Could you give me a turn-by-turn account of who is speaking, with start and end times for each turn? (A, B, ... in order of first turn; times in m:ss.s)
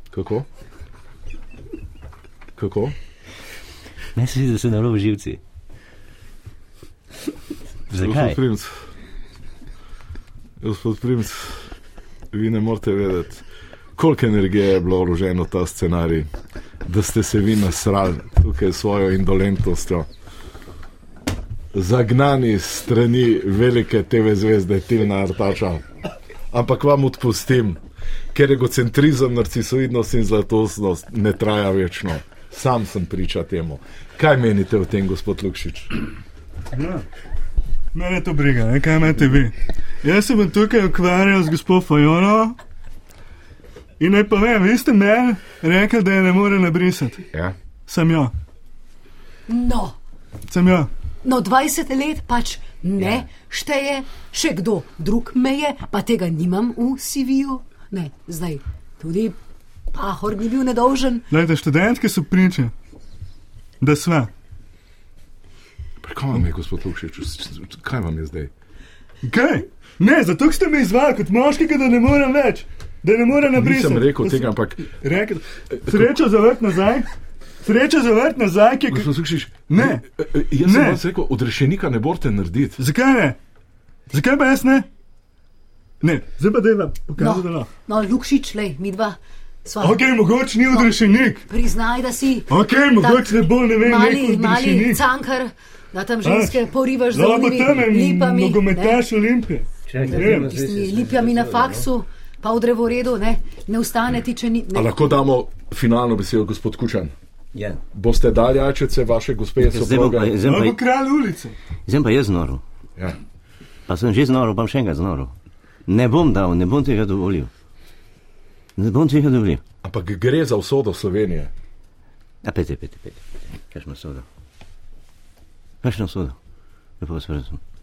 0:00.1-0:00.4 A
0:02.6-0:02.9 A
0:04.2-0:05.4 B
0:07.9-0:08.4 B
0:07.9-0:08.7 A
0:10.6-0:11.6 A
0:12.3-0:13.4 A
0:14.0-0:16.3 A
0:16.8-0:20.1 A
0:21.7-0:25.8 A
0:26.5-0:27.8 A
0:28.3-0:35.9 A
0:36.7-0:37.0 C
0:37.9-0:42.6 C
0:44.0-0:47.2 C
0:47.9-0:48.3 C
0:49.5-0:49.9 D
0:50.5-0:50.9 C
0:51.2-0:59.4 D
0:59.9-1:01.2 D
1:01.3-1:02.7 C
1:03.8-1:04.3 C
1:06.0-1:08.5 A
1:09.2-1:17.1 C
1:13.5-1:14.9 A
1:15.7-1:16.2 A
1:17.6-1:19.1 C
1:18.9-1:22.8 A
1:19.7-1:20.0 C
1:20.6-1:21.0 C
1:22.8-1:23.4 C
1:24.1-1:24.9 C
1:26.0-1:27.7 C
1:27.2-1:39.0 D
1:29.8-1:31.4 C
1:32.5-1:35.0 C
1:36.2-1:36.6 C
1:37.1-1:40.5 C
1:39.9-1:41.8 B
1:40.0-1:45.0 D
1:44.7-1:47.1 A
1:47.5-1:47.8 B
1:47.9-1:50.4 A
1:49.6-1:50.8 B
1:50.4-1:51.5 C
1:51.9-1:52.6 B
1:53.9-1:55.3 B
1:55.9-1:57.5 B
1:58.8-1:59.6 B
1:59.8-2:01.5 A
2:02.4-2:04.2 B
2:05.8-2:06.4 B
2:07.0-2:07.6 B